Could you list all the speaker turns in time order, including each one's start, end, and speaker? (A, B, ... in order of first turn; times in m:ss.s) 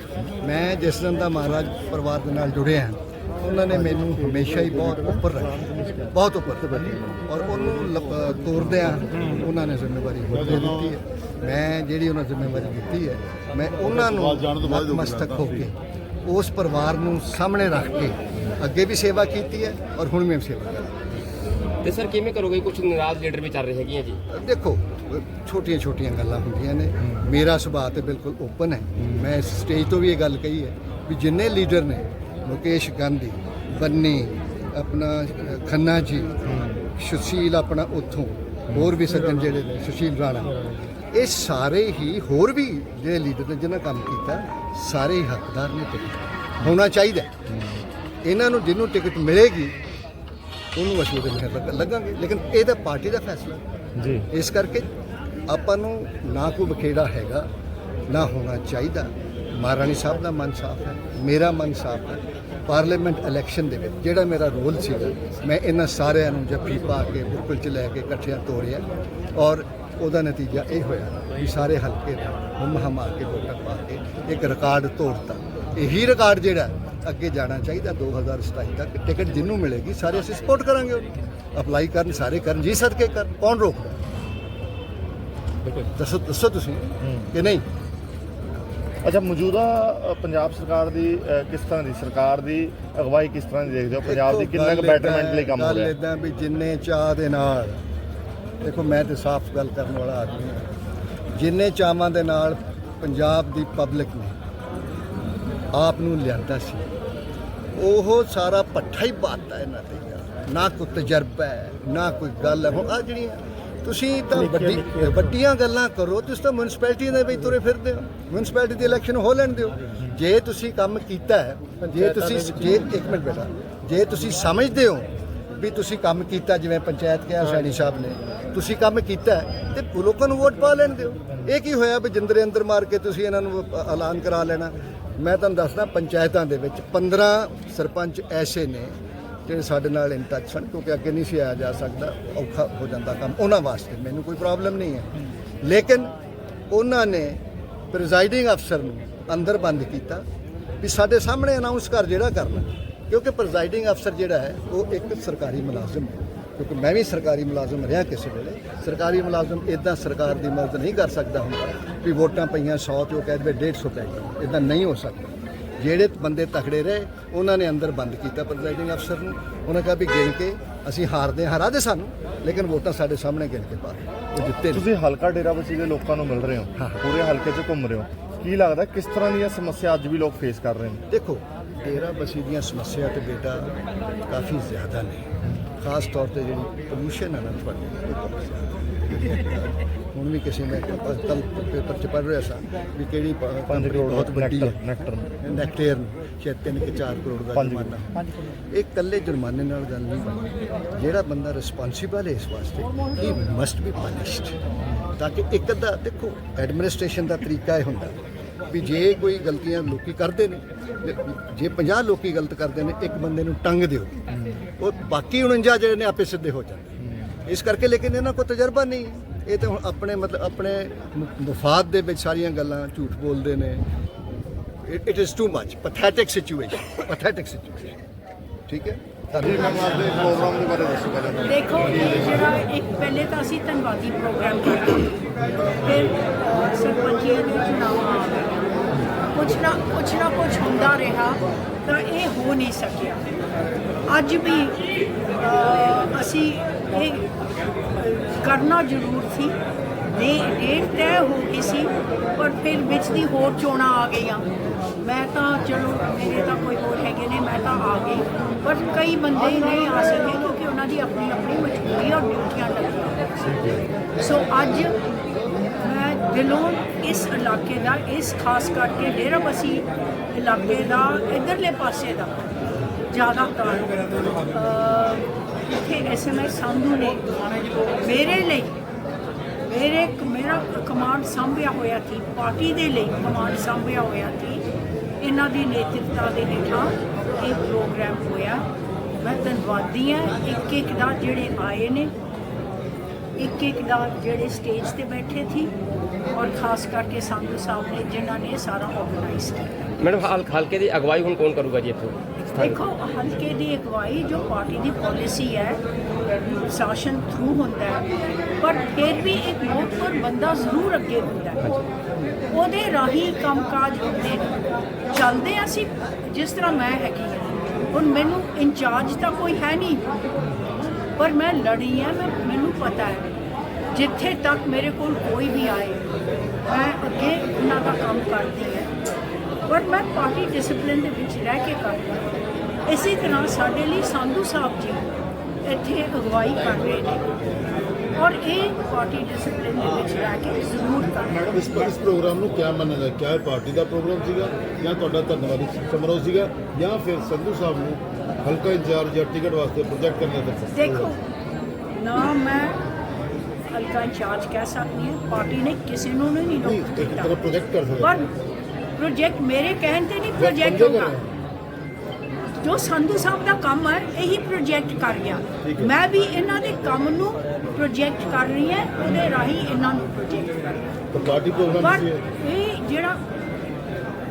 0:00.4-0:21.0 A
0:10.3-0:11.0 B
0:13.8-0:15.7 B
0:21.8-0:24.2 C
0:24.3-0:40.6 A
0:41.1-0:47.3 A
0:47.5-0:47.8 D
0:48.2-0:49.8 A
0:50.8-0:53.6 A
0:54.0-0:54.3 D
0:54.3-0:54.9 A
0:55.5-0:57.5 A
0:58.1-1:24.0 A
1:26.0-1:27.6 A
1:27.0-1:27.3 D
1:29.0-1:35.9 D
1:34.0-1:37.8 A
1:38.6-1:40.7 A
1:41.4-1:44.4 A
1:45.7-1:46.9 A
1:47.8-2:26.1 A
2:26.7-2:27.4 A
2:27.9-2:30.2 A
2:30.8-2:54.9 A
2:54.7-3:01.0 D
2:56.8-2:57.0 A
3:01.1-3:03.7 A
3:04.3-3:05.2 A
3:05.8-3:14.8 A
3:13.7-3:15.3 D
3:15.4-3:24.6 A
3:17.6-3:18.0 D
3:25.2-3:28.2 A
3:28.7-3:34.1 A
3:34.3-3:34.6 D
3:34.8-3:43.8 A
3:44.8-3:48.0 A
3:48.7-3:50.2 A
3:49.4-3:51.5 D
3:51.4-3:55.2 E
3:55.8-3:58.6 E
3:59.3-4:03.2 E
4:04.1-4:04.8 E
4:05.4-4:07.3 E
4:07.9-4:09.6 E
4:10.1-4:23.3 E
4:24.2-4:25.0 E
4:25.8-4:32.5 E
4:33.1-4:37.2 E
4:37.8-4:38.8 E
4:39.6-4:44.6 E
4:45.2-4:48.7 E
4:49.2-4:52.1 E
4:53.4-4:55.7 E
4:56.3-4:59.8 E
5:00.0-5:02.2 C
5:02.6-5:05.8 E
5:06.6-5:08.1 E
5:08.6-5:11.8 E
5:12.5-5:20.1 E
5:21.2-5:23.3 E
5:23.9-5:26.1 E
5:26.6-5:28.9 E
5:29.7-5:32.3 E
5:32.9-5:35.1 E
5:35.6-5:37.3 E
5:38.2-5:41.9 E
5:41.5-5:51.1 B
5:50.7-5:51.2 E
5:51.9-5:52.8 E
5:53.7-5:57.4 E
5:56.6-5:58.2 B
5:58.0-5:58.3 E
5:59.0-6:01.2 E
6:00.4-6:01.3 B
6:02.5-6:10.8 E
6:05.6-6:05.9 B
6:11.1-6:12.2 B
6:11.8-6:13.2 E